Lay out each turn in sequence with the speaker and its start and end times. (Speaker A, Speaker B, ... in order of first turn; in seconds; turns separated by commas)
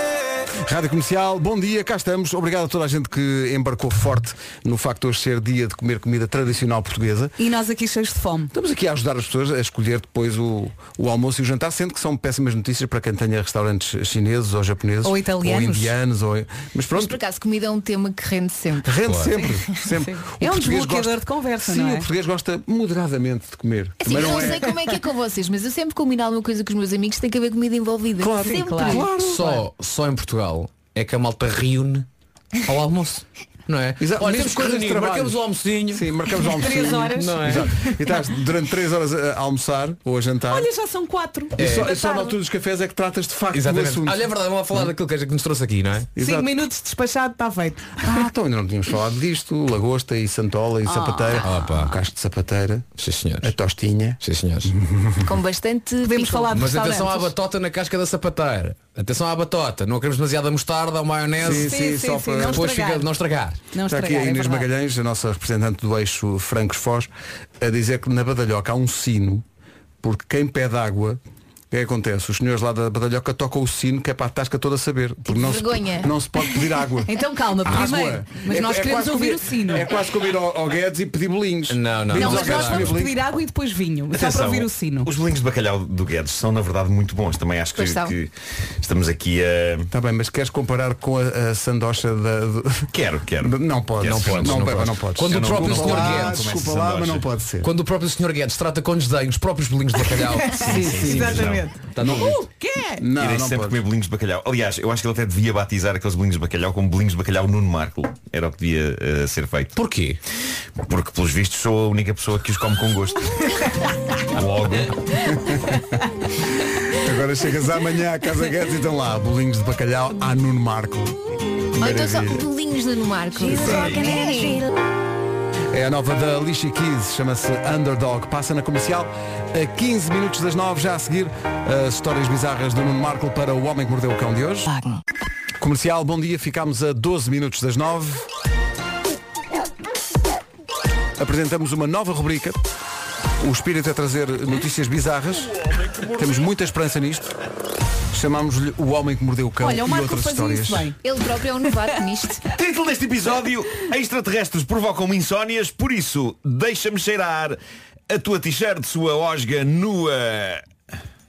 Speaker A: 0.5-7.3, Speaker B: 7.4-8.5, Speaker A: 8.5-17.2, Speaker B: 15.0-15.9, Speaker C: 16.9-19.0, Speaker A: 18.8-24.7, Speaker D: 19.1-19.3, Speaker B: 20.0-22.1, Speaker C: 24.0-29.1, Speaker A: 28.2-29.6, Speaker B: 28.4-29.1, Speaker D: 29.2-32.1, Speaker D: 32.6-36.1, Speaker A: 34.0-40.7, Speaker B: 36.5-38.0, Speaker D: 37.1-37.7, Speaker B: 40.5-42.4, Speaker A: 41.5-44.9, Speaker D: 41.6-41.9, Speaker D: 43.5-46.1, Speaker A: 46.1-46.5, Speaker B: 46.2-48.0, Speaker A: 48.0-52.9, Speaker B: 50.8-51.7, Speaker D: 51.4-51.9, Speaker D: 53.0-53.5, Speaker A: 53.4-55.2, Speaker D: 54.2-54.7, Speaker C: 55.2-56.6, Speaker B: 56.0-57.3, Speaker D: 56.5-61.7, Speaker A: 61.4-62.7, Speaker B: 61.5-63.1, Speaker D: 62.4-63.6, Speaker B: 63.7-64.7, Speaker A: 63.9-69.4, Speaker A: 70.0-83.2, Speaker C: 75.2-76.1, Speaker B: 77.1-79.9, Speaker D: 81.7-83.0, Speaker B: 82.1-85.1, Speaker E: 84.1-89.9, Speaker C: 87.7-88.1, Speaker A: 89.9-97.7, Speaker E: 92.9-97.3, Speaker D: 94.0-96.6, Speaker D: 97.6-102.3, Speaker B: 100.3-103.0, Speaker A: 100.6-102.4, Speaker E: 101.2-101.6, Speaker A: 103.0-103.8, Speaker E: 103.1-109.8, Speaker D: 109.8-110.2, Speaker E: 110.8-113.5, Speaker E: 114.3-115.1, Speaker A: 115.3-115.8, Speaker A: 116.9-121.2, Speaker A: 121.8-122.5, Speaker C: 121.8-124.7, Speaker B: 123.4-124.6, Speaker A: 123.5-124.0, Speaker A: 125.7-134.7, Speaker A: 135.6-138.3, Speaker A: 141.2-142.6, Speaker A: 143.4-147.3, Speaker A: 148.1-150.9, Speaker B: 149.6-151.0, Speaker C: 151.0-152.5, Speaker E: 152.5-157.6, Speaker E: 158.1-160.6